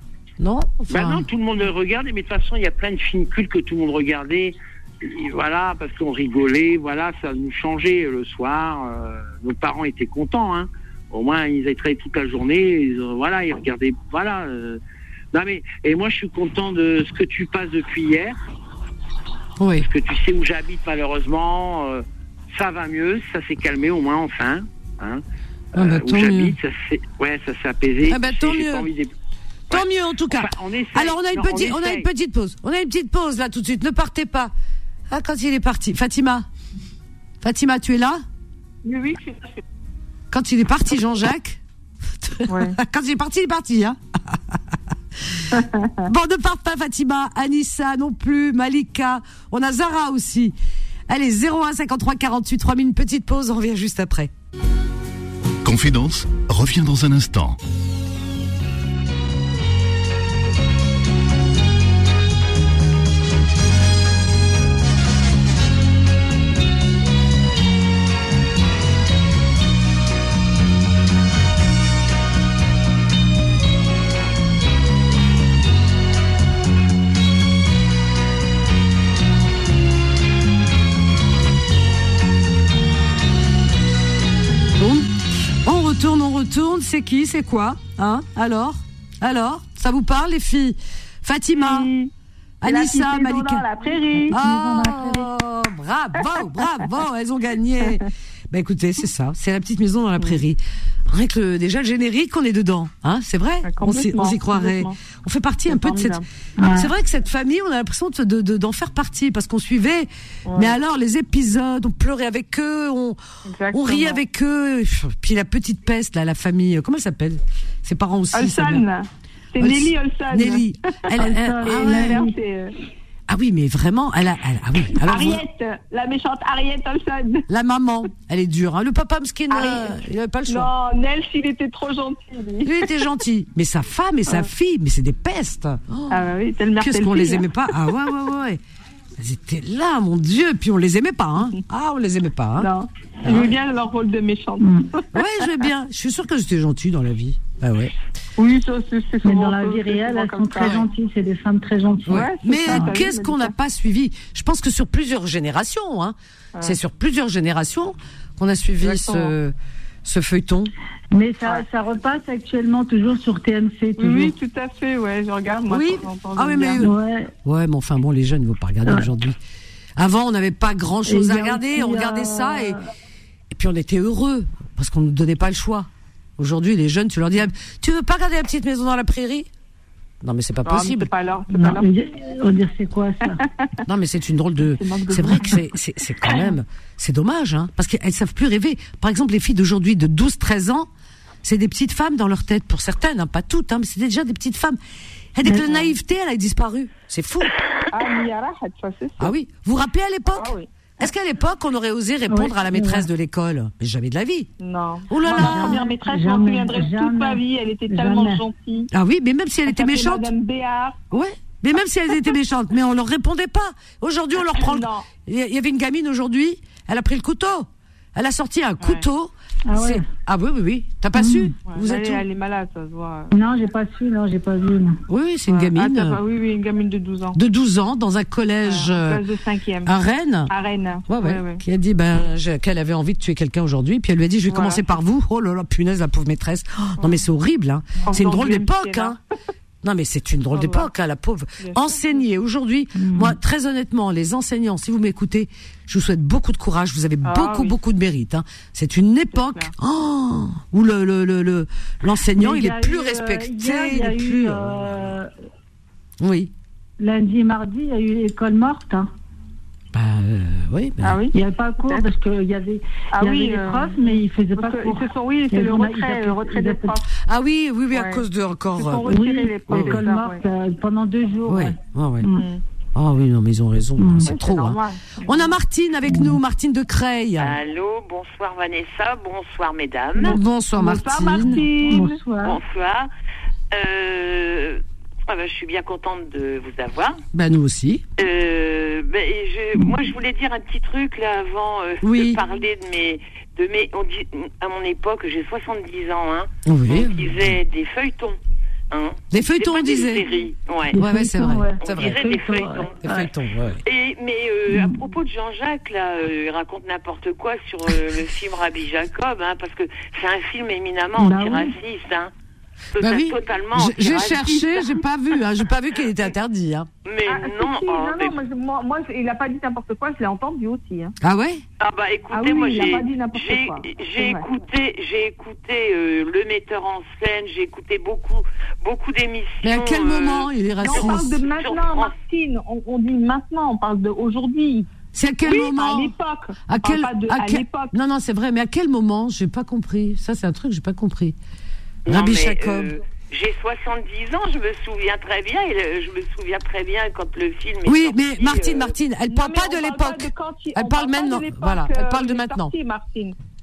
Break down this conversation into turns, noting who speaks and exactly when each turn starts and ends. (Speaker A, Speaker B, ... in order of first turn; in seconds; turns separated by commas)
Speaker A: 0.4-1.2, Speaker B: 0.9-14.8, Speaker B: 15.3-18.4, Speaker A: 19.6-19.9, Speaker B: 19.8-25.2, Speaker B: 25.7-29.1, Speaker A: 25.7-26.5, Speaker A: 28.1-28.9, Speaker B: 29.7-32.1, Speaker A: 29.7-34.5, Speaker A: 35.1-36.5, Speaker A: 37.4-38.2, Speaker C: 38.8-39.6, Speaker A: 40.3-41.6, Speaker A: 42.1-44.7, Speaker C: 42.5-42.8, Speaker C: 45.5-46.0, Speaker A: 46.0-50.5, Speaker A: 51.1-54.3, Speaker D: 55.6-57.6, Speaker A: 84.8-91.9, Speaker C: 91.5-92.1, Speaker A: 92.6-93.7, Speaker C: 92.6-94.4, Speaker E: 94.1-95.3, Speaker A: 94.3-113.2, Speaker C: 103.6-105.0, Speaker C: 105.7-106.2, Speaker E: 106.6-106.9, Speaker C: 110.5-110.7, Speaker C: 113.5-114.2, Speaker A: 113.7-118.8, Speaker C: 118.3-120.7, Speaker A: 119.6-122.2, Speaker E: 121.2-122.3, Speaker C: 121.6-122.7, Speaker A: 123.3-125.4, Speaker C: 125.0-127.5, Speaker A: 127.5-130.7, Speaker C: 129.5-132.8, Speaker A: 132.6-138.6, Speaker C: 136.1-137.5, Speaker A: 139.2-142.7, Speaker C: 142.6-145.2, Speaker A: 143.2-143.5, Speaker E: 144.6-144.9, Speaker A: 145.1-147.9, Speaker C: 148.4-150.8, Speaker E: 149.2-152.9, Speaker A: 152.1-160.7, Speaker C: 152.1-153.5, Speaker C: 158.8-159.3, Speaker E: 161.1-164.3, Speaker C: 164.0-166.8, Speaker A: 165.7-169.4, Speaker E: 166.8-167.3, Speaker A: 170.0-172.8, Speaker E: 171.1-172.8, Speaker A: 173.5-179.5, Speaker A: 180.2-181.1, Speaker C: 180.6-181.9, Speaker E: 181.5-183.4, Speaker A: 183.8-190.9, Speaker C: 184.7-185.6, Speaker A: 191.4-194.8, Speaker A: 195.3-197.5, Speaker C: 197.9-199.3, Speaker A: 199.2-204.5, Speaker C: 200.3-200.7, Speaker E: 202.3-203.1, Speaker C: 204.6-208.9, Speaker A: 205.1-205.8, Speaker E: 205.2-208.4, Speaker A: 208.9-210.3, Speaker C: 209.7-211.0, Speaker A: 211.1-222.2, Speaker C: 214.5-215.1, Speaker E: 219.7-220.1, Speaker E: 221.1-221.5, Speaker C: 221.7-223.3, Speaker E: 223.3-225.0, Speaker A: 225.1-226.2, Speaker C: 225.5-227.4, Speaker A: 227.3-229.2, Speaker C: 228.6-230.0, Speaker A: 229.8-230.5, Speaker C: 230.5-231.6, Speaker A: 231.1-239.2, Speaker C: 234.5-234.8, Speaker C: 238.0-239.2, Speaker A: 239.8-254.7, Speaker C: 240.5-240.9, Speaker C: 241.6-242.2, Speaker E: 242.9-243.3, Speaker C: 247.2-247.7, Speaker C: 249.3-249.7, Speaker E: 252.3-255.3, Speaker A: 256.2-256.5, Speaker E: 257.0-259.1, Speaker A: 259.9-261.2, Speaker C: 261.0-262.0, Speaker E: 261.3-266.9, Speaker C: 263.1-267.1, Speaker A: 267.2-269.2, Speaker C: 267.9-268.2, Speaker C: 268.7-270.4, Speaker E: 269.1-272.4, Speaker A: 269.7-270.0, Speaker A: 271.4-272.3, Speaker C: 272.3-272.6, Speaker A: 272.9-277.5, Speaker E: 274.0-274.3, Speaker C: 274.2-275.5, Speaker E: 276.1-276.4, Speaker F: 277.4-280.4, Speaker A: 280.2-281.6, Speaker C: 280.3-282.2, Speaker E: 281.5-282.6, Speaker F: 282.4-283.1, Speaker F: 283.7-287.2, Speaker A: 287.3-288.0, Speaker F: 288.2-298.4, Speaker A: 292.0-292.4, Speaker A: 296.6-297.3, Speaker F: 298.9-301.0, Speaker A: 299.3-300.2, Speaker E: 300.9-303.3, Speaker A: 301.0-302.2, Speaker F: 301.8-303.0, Speaker A: 303.0-303.8, Speaker F: 303.8-312.3, Speaker E: 304.7-305.0, Speaker E: 311.2-311.7, Speaker F: 312.9-315.0, Speaker A: 313.0-316.9, Speaker F: 317.0-318.4, Speaker C: 317.3-321.1, Speaker A: 321.2-321.6, Speaker F: 321.8-332.1, Speaker C: 322.3-324.4, Speaker A: 329.6-331.4, Speaker C: 330.8-334.9, Speaker A: 335.1-336.1, Speaker C: 335.4-337.9, Speaker A: 336.7-341.4, Speaker A: 342.1-342.9, Speaker F: 342.1-348.9, Speaker A: 347.8-352.7, Speaker C: 349.3-353.4